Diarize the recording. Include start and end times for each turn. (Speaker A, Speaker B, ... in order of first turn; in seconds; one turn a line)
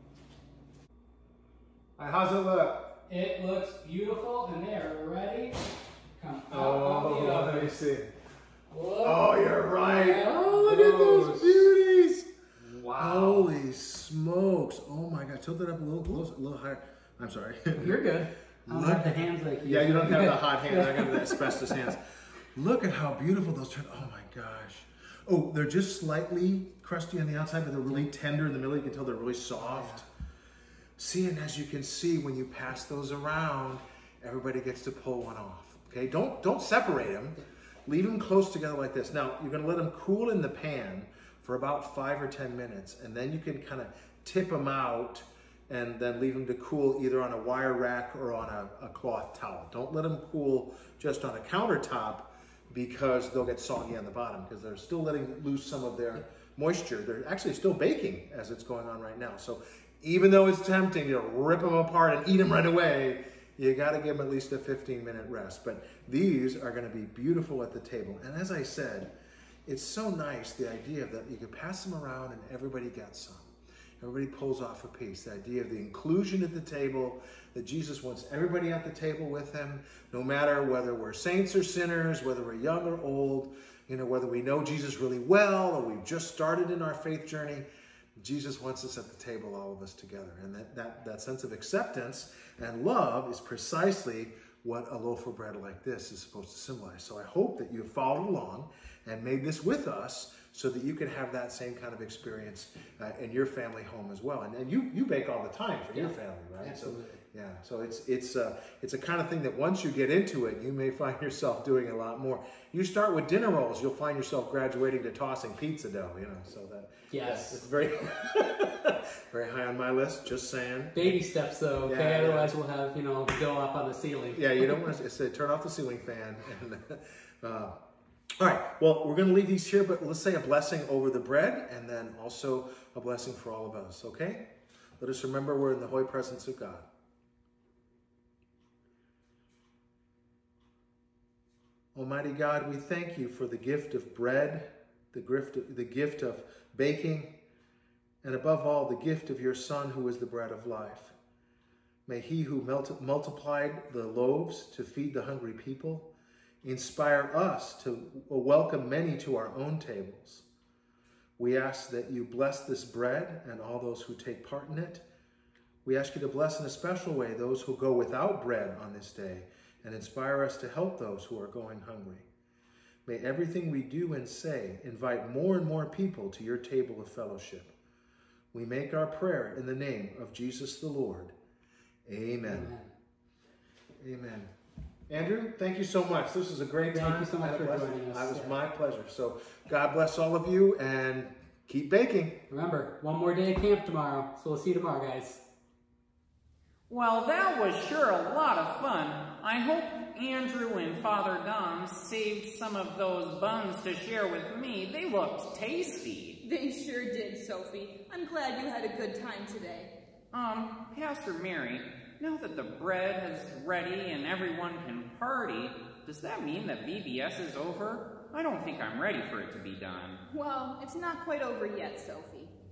Speaker A: 2.0-2.9
Speaker B: 3.1-5.6
Speaker B: 6.2-7.8
Speaker A: 6.5-8.1
Speaker B: 8.7-11.7
Speaker A: 9.0-12.3
Speaker B: 12.7-13.5
Speaker A: 13.0-18.1
Speaker B: 17.7-21.8
Speaker A: 18.7-22.0
Speaker A: 22.6-30.1
Speaker B: 29.6-30.0
Speaker A: 31.0-69.1
Speaker A: 69.7-87.7
Speaker A: 88.2-121.2
Speaker B: 105.9-107.2
Speaker B: 117.1-117.6
Speaker B: 121.0-124.9
Speaker A: 121.9-122.5
Speaker A: 124.3-127.8
Speaker A: 128.4-134.5
Speaker A: 135.0-136.9
Speaker A: 141.9-147.4
Speaker A: 148.2-151.1
Speaker A: 152.1-156.1
Speaker A: 156.6-160.4
Speaker A: 161.4-165.0
Speaker A: 165.8-172.3
Speaker A: 173.1-177.7
Speaker A: 178.5-181.3
Speaker A: 182.1-182.7
Speaker B: 182.4-182.9
Speaker A: 184.0-184.5
Speaker A: 185.1-192.4
Speaker B: 186.9-188.6
Speaker B: 192.5-195.4
Speaker C: 196.9-206.4
Speaker D: 206.4-209.9
Speaker C: 210.3-220.2
Speaker D: 220.3-222.5